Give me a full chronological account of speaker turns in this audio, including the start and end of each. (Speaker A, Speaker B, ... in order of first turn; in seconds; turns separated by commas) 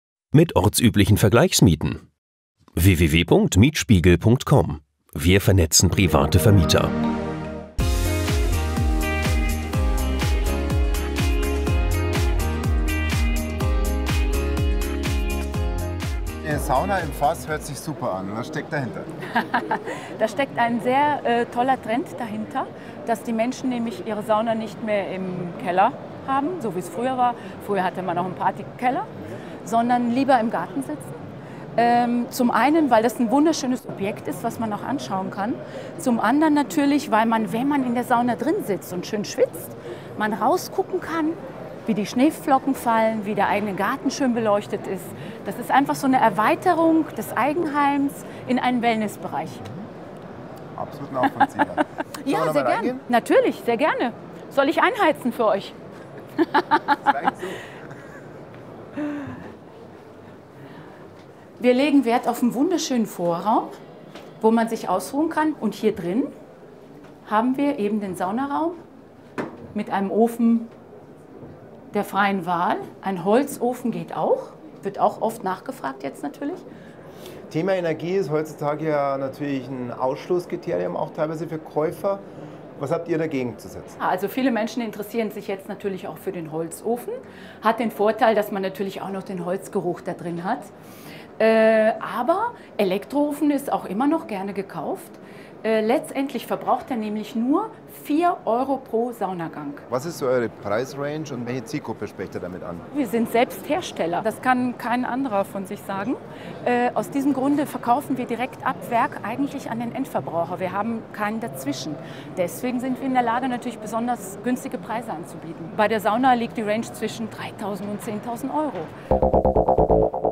Speaker A: 0.3-2.0, Speaker A: 2.8-6.9, Speaker B: 16.4-19.1, Speaker C: 19.3-29.1, Speaker C: 29.6-31.2, Speaker C: 31.8-49.6, Speaker B: 50.8-53.0, Speaker C: 52.2-55.8, Speaker C: 56.4-57.0, Speaker B: 56.9-57.7, Speaker C: 61.6-63.8, Speaker C: 64.4-66.3, Speaker C: 67.3-68.8, Speaker C: 69.7-70.7, Speaker C: 71.9-76.7, Speaker B: 77.5-82.2, Speaker B: 82.8-84.0, Speaker C: 84.0-90.7, Speaker C: 91.4-99.8, Speaker B: 99.9-102.9, Speaker C: 102.9-118.9